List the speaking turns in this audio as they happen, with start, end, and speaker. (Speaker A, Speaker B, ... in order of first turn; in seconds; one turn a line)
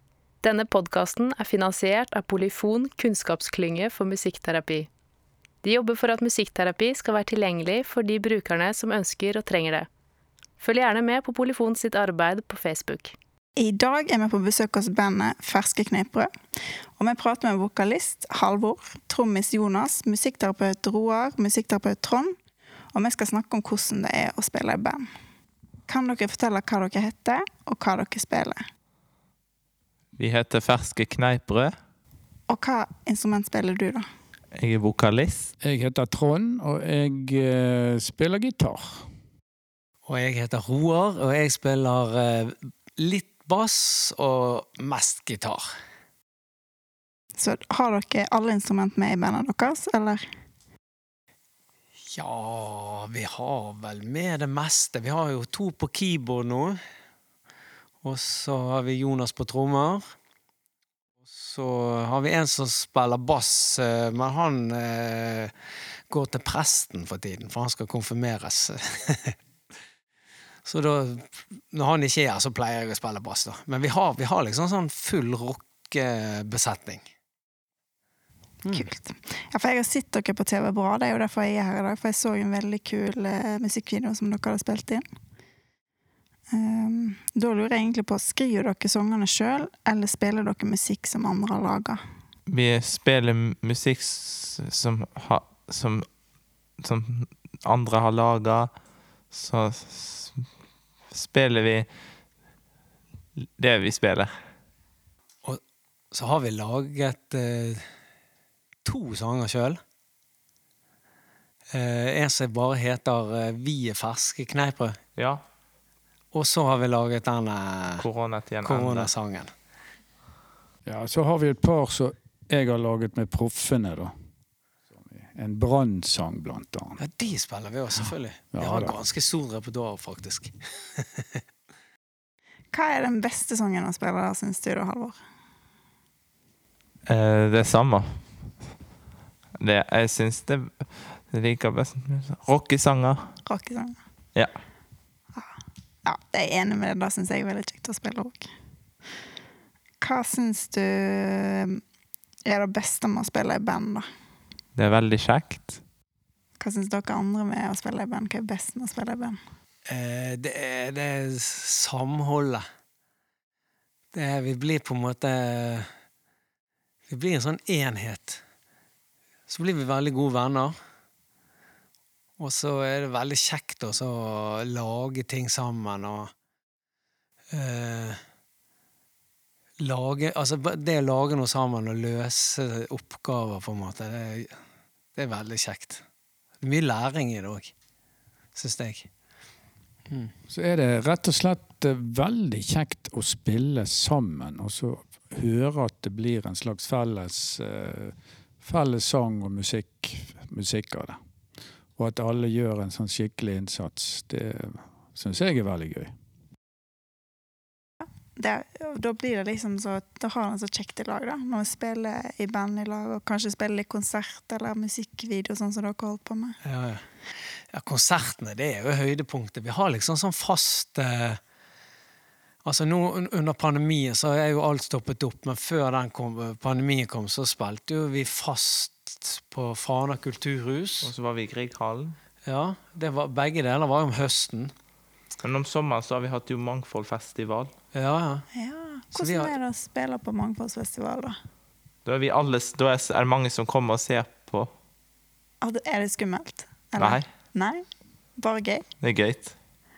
Speaker A: 0.4-4.9
Speaker A: 5.6-9.9
Speaker A: 10.6-13.1
Speaker B: 13.6-16.3
Speaker B: 17.0-22.3
Speaker B: 22.9-25.1
Speaker B: 25.9-28.6
Speaker C: 30.2-31.7
Speaker B: 32.5-34.0
Speaker C: 34.6-35.5
Speaker D: 35.6-39.0
Speaker E: 40.0-45.6
Speaker B: 47.4-50.2
Speaker E: 52.1-56.8
Speaker E: 58.0-60.0
Speaker E: 61.2-65.5
Speaker E: 66.1-69.3
Speaker E: 70.7-77.0
Speaker B: 78.7-85.0
Speaker B: 86.5-92.0
Speaker C: 92.5-96.0
Speaker C: 96.8-98.7
Speaker C: 99.3-100.3
Speaker C: 101.1-101.9
Speaker C: 103.4-104.3
Speaker E: 106.1-107.8
Speaker E: 108.8-109.8
Speaker E: 111.7-115.0
Speaker C: 115.2-115.4
Speaker E: 116.3-118.0
Speaker C: 118.0-119.1
Speaker E: 118.6-119.5
Speaker D: 120.8-124.1
Speaker D: 124.9-127.0
Speaker E: 127.0-131.4
Speaker D: 128.6-128.9
Speaker B: 132.7-135.2
Speaker C: 137.1-138.0
Speaker C: 139.6-143.2
Speaker B: 143.4-143.9
Speaker B: 146.0-148.5
Speaker B: 150.0-151.8
Speaker B: 152.4-154.0
Speaker C: 154.8-155.8
Speaker B: 156.6-159.4
Speaker E: 159.9-162.6
Speaker E: 164.1-165.9
Speaker E: 167.1-168.4
Speaker E: 169.5-170.7
Speaker E: 172.4-176.3
Speaker E: 177.5-178.2
Speaker E: 179.8-184.5
Speaker E: 185.2-186.0
Speaker E: 186.6-187.7
Speaker E: 188.6-189.1
Speaker D: 190.5-201.2
Speaker D: 201.9-206.1
Speaker B: 208.3-216.6
Speaker E: 216.6-217.0
Speaker E: 217.7-221.4
Speaker E: 222.6-231.1
Speaker C: 231.0-232.2
Speaker E: 232.4-234.7
Speaker C: 235.4-237.7
Speaker E: 237.9-238.4
Speaker B: 238.5-241.3
Speaker E: 239.2-239.5
Speaker C: 242.1-244.7
Speaker B: 245.6-247.8
Speaker C: 247.0-247.2
Speaker B: 248.4-248.8
Speaker C: 249.0-249.5